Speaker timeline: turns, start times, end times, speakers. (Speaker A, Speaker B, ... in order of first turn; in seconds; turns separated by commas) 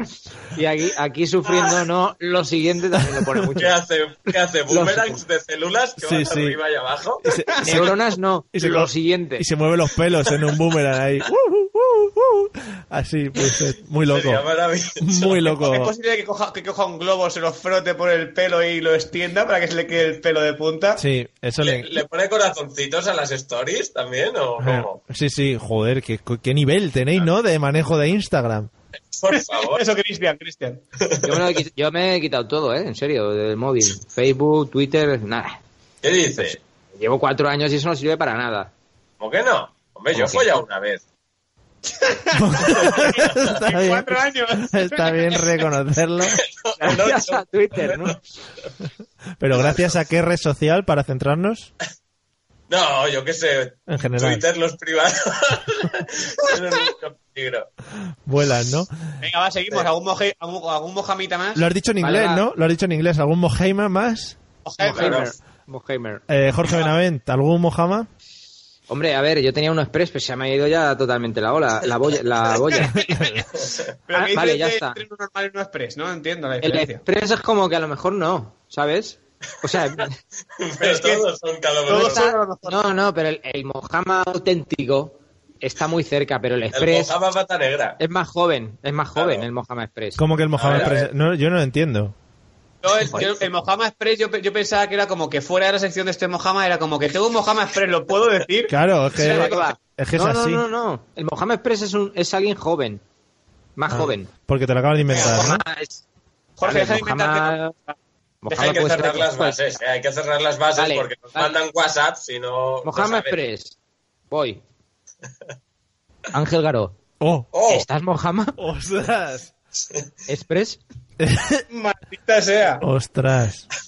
Speaker A: 0.5-3.8, Speaker B: 3.6-7.2, Speaker A: 4.7-5.2, Speaker C: 6.0-6.6, Speaker C: 7.2-8.0, Speaker A: 7.6-9.5, Speaker C: 8.5-14.5, Speaker B: 14.1-15.6, Speaker C: 15.0-15.9, Speaker D: 15.6-21.0, Speaker C: 21.0-22.0, Speaker B: 21.6-25.0, Speaker C: 24.6-28.7, Speaker B: 29.1-29.8, Speaker D: 29.3-30.8, Speaker B: 31.0-31.5, Speaker A: 31.2-35.6, Speaker B: 36.0-36.6, Speaker A: 36.4-38.7, Speaker B: 39.2-41.0, Speaker A: 40.1-40.5, Speaker D: 41.9-45.4, Speaker C: 42.4-46.4, Speaker B: 42.9-43.2, Speaker B: 46.2-48.2, Speaker A: 46.8-48.2, Speaker C: 49.4-51.7, Speaker B: 49.5-50.0, Speaker B: 52.7-57.7, Speaker C: 53.9-54.4, Speaker C: 58.3-58.9, Speaker D: 59.2-61.6, Speaker C: 61.5-64.4, Speaker A: 62.0-62.5, Speaker D: 64.7-65.4, Speaker A: 64.8-66.2, Speaker B: 65.0-65.2, Speaker C: 66.3-68.1, Speaker A: 68.9-73.0, Speaker C: 72.8-73.5, Speaker B: 73.6-73.9, Speaker D: 74.1-77.0, Speaker A: 74.1-75.0, Speaker A: 76.6-80.2, Speaker B: 80.6-82.3, Speaker D: 80.8-81.3, Speaker D: 81.9-82.8, Speaker A: 81.9-87.1, Speaker B: 86.7-88.0, Speaker A: 88.0-90.2, Speaker B: 89.2-89.5, Speaker C: 90.2-92.1, Speaker B: 90.6-91.1, Speaker D: 92.8-99.7, Speaker C: 98.7-100.6, Speaker A: 99.2-103.0, Speaker A: 103.8-104.3, Speaker C: 103.9-105.6, Speaker D: 105.1-105.6, Speaker A: 105.1-106.0, Speaker D: 106.6-108.0, Speaker A: 106.6-107.7, Speaker A: 108.4-109.6, Speaker D: 108.5-108.8, Speaker B: 108.5-113.4, Speaker A: 110.8-111.5, Speaker A: 112.8-113.8, Speaker A: 114.3-114.6, Speaker A: 116.3-116.9, Speaker C: 117.2-117.5, Speaker B: 117.5-117.9, Speaker A: 117.7-118.6, Speaker C: 118.6-119.5, Speaker A: 120.3-120.8, Speaker C: 121.2-121.7, Speaker D: 121.7-122.8, Speaker C: 122.8-123.7